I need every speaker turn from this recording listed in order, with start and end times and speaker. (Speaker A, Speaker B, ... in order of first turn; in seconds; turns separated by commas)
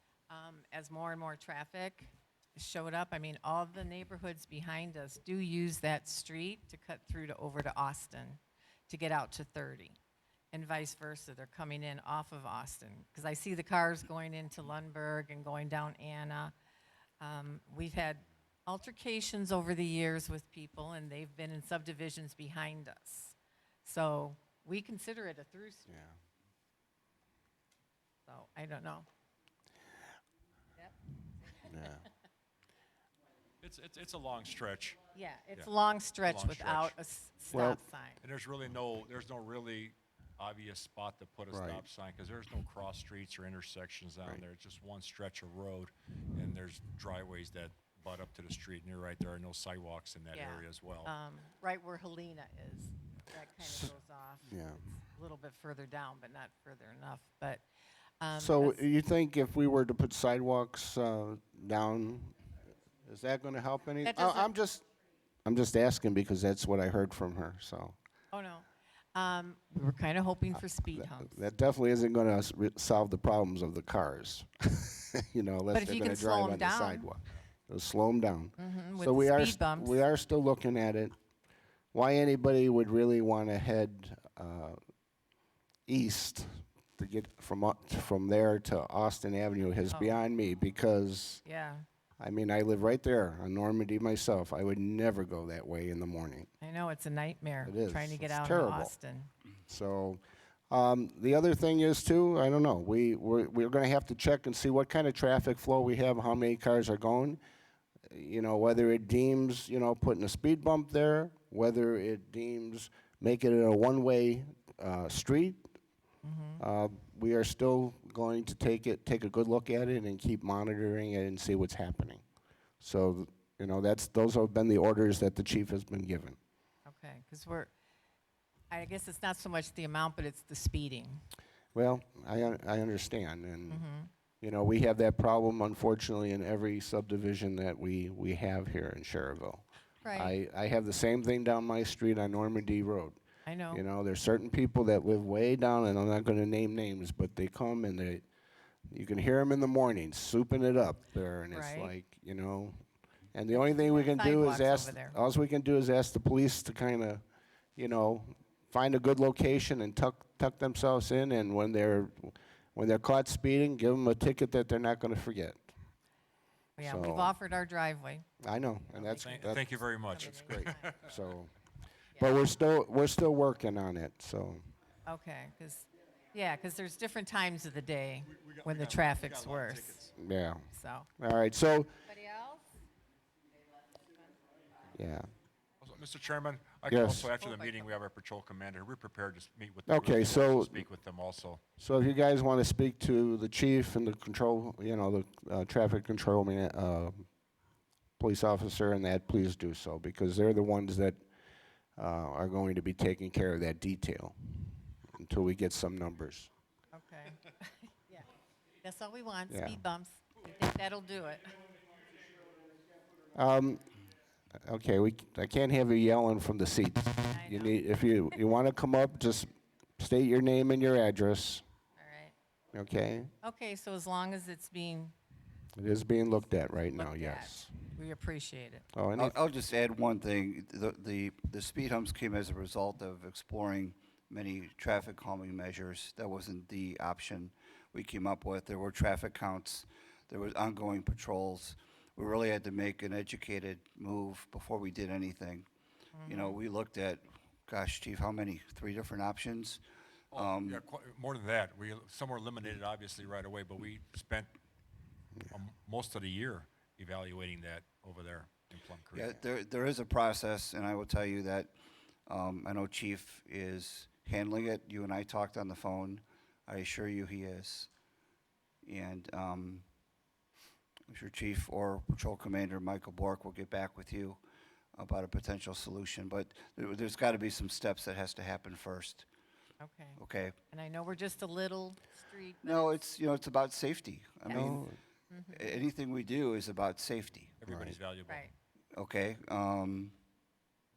Speaker A: 0.3-10.0, Speaker A: 10.5-16.5, Speaker A: 17.2-25.9, Speaker B: 25.9-26.2, Speaker A: 28.3-29.1, Speaker A: 30.8-32.0, Speaker B: 31.6-32.0, Speaker C: 33.6-35.0, Speaker A: 35.1-38.2, Speaker C: 36.2-37.0, Speaker B: 37.5-37.8, Speaker C: 38.2-51.1, Speaker B: 41.5-41.8, Speaker A: 50.3-57.6, Speaker B: 53.6-53.9, Speaker B: 54.5-54.9, Speaker A: 58.2-58.9, Speaker B: 58.3-62.5, Speaker B: 63.0-64.9, Speaker A: 64.0-64.5, Speaker B: 65.5-68.0, Speaker A: 68.3-71.4, Speaker B: 70.6-81.1, Speaker A: 75.7-77.1, Speaker A: 78.6-80.0, Speaker B: 81.9-84.8, Speaker B: 85.9-91.4, Speaker A: 89.9-90.2, Speaker A: 91.5-91.8, Speaker B: 92.2-96.5, Speaker A: 96.6-99.3, Speaker B: 97.7-98.9, Speaker B: 99.7-107.4, Speaker B: 108.1-115.7, Speaker A: 116.2-116.6, Speaker B: 116.6-122.2, Speaker B: 122.8-126.4, Speaker A: 126.9-127.7, Speaker A: 128.7-131.2, Speaker B: 131.8-133.9, Speaker A: 133.7-134.1, Speaker B: 134.4-143.2, Speaker A: 140.0-140.4, Speaker A: 143.5-143.8, Speaker B: 143.7-148.2, Speaker B: 148.9-152.8, Speaker A: 151.5-151.9, Speaker B: 153.3-157.2, Speaker A: 153.5-155.2, Speaker B: 157.8-165.7, Speaker A: 166.8-168.2, Speaker B: 166.8-167.4, Speaker B: 168.4-171.5, Speaker A: 168.9-170.9, Speaker C: 169.1-171.1, Speaker A: 172.2-172.4, Speaker B: 172.2-174.6, Speaker A: 175.1-180.1, Speaker C: 178.3-180.1, Speaker B: 180.2-180.7, Speaker A: 180.7-181.1, Speaker B: 181.2-182.1, Speaker A: 182.1-182.7, Speaker B: 184.9-185.3, Speaker C: 185.8-191.6, Speaker B: 186.9-187.3, Speaker A: 187.4-187.8, Speaker B: 189.9-190.8, Speaker B: 191.8-197.3, Speaker B: 198.2-201.2, Speaker B: 202.0-206.5, Speaker A: 206.9-208.3, Speaker A: 208.8-211.6, Speaker B: 209.5-209.8, Speaker B: 213.3-213.9, Speaker B: 214.6-221.6, Speaker A: 217.3-217.8, Speaker A: 222.0-222.3, Speaker B: 222.7-223.3, Speaker A: 223.4-225.1, Speaker B: 225.8-227.9, Speaker A: 226.9-228.9, Speaker B: 228.9-229.4, Speaker D: 229.2-245.7, Speaker A: 246.2-246.6, Speaker D: 246.3-249.8, Speaker C: 250.3-254.5, Speaker D: 250.3-250.8, Speaker C: 255.5-259.4, Speaker D: 259.1-261.7, Speaker D: 262.3-267.9, Speaker D: 268.8-269.9, Speaker D: 271.1-274.4, Speaker D: 275.0-279.3, Speaker A: 279.8-280.2, Speaker D: 280.2-280.6, Speaker A: 280.7-283.0, Speaker D: 282.6-284.9, Speaker A: 284.5-285.8, Speaker B: 284.5-284.9, Speaker D: 285.5-287.5, Speaker C: 287.6-288.4, Speaker B: 287.7-288.0, Speaker A: 288.3-288.5, Speaker D: 288.9-290.1